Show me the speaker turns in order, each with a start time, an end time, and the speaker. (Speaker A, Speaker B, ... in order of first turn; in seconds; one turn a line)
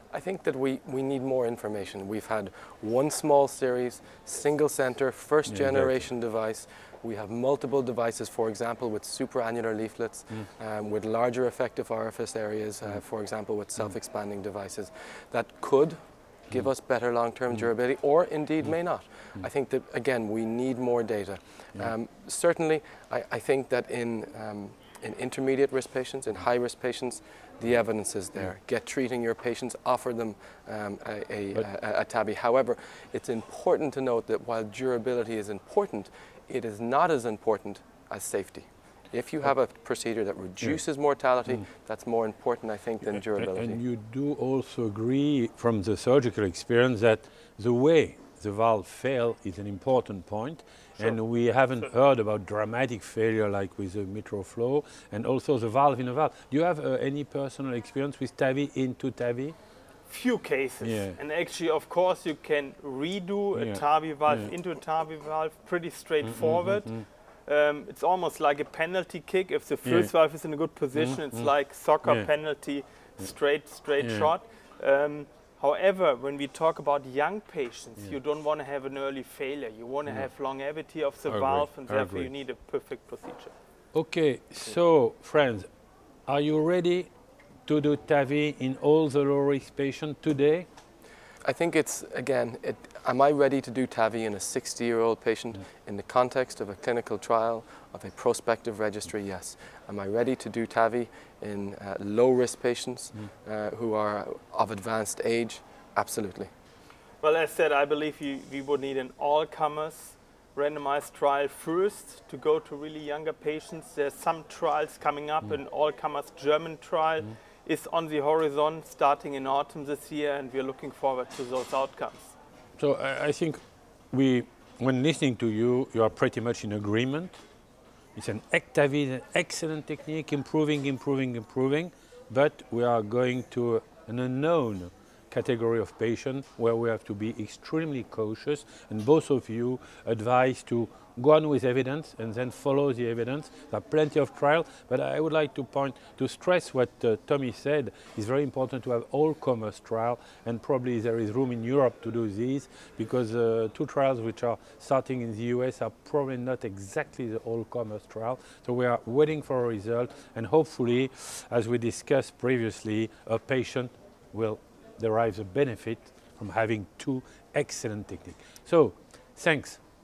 Speaker A: 0.1-16.0
Speaker B: 5.5-6.0
Speaker A: 16.5-43.8
Speaker B: 43.3-59.5
Speaker C: 60.1-66.9
Speaker B: 60.8-61.2
Speaker B: 63.5-64.5
Speaker B: 66.2-67.0
Speaker C: 67.5-83.5
Speaker B: 69.8-70.1
Speaker B: 70.9-71.5
Speaker B: 74.0-74.3
Speaker B: 81.3-82.3
Speaker B: 83.9-85.7
Speaker B: 86.3-87.1
Speaker B: 87.7-90.7
Speaker A: 91.4-106.5
Speaker C: 107.2-122.3
Speaker B: 122.8-123.6
Speaker B: 124.1-127.4
Speaker B: 128.2-169.8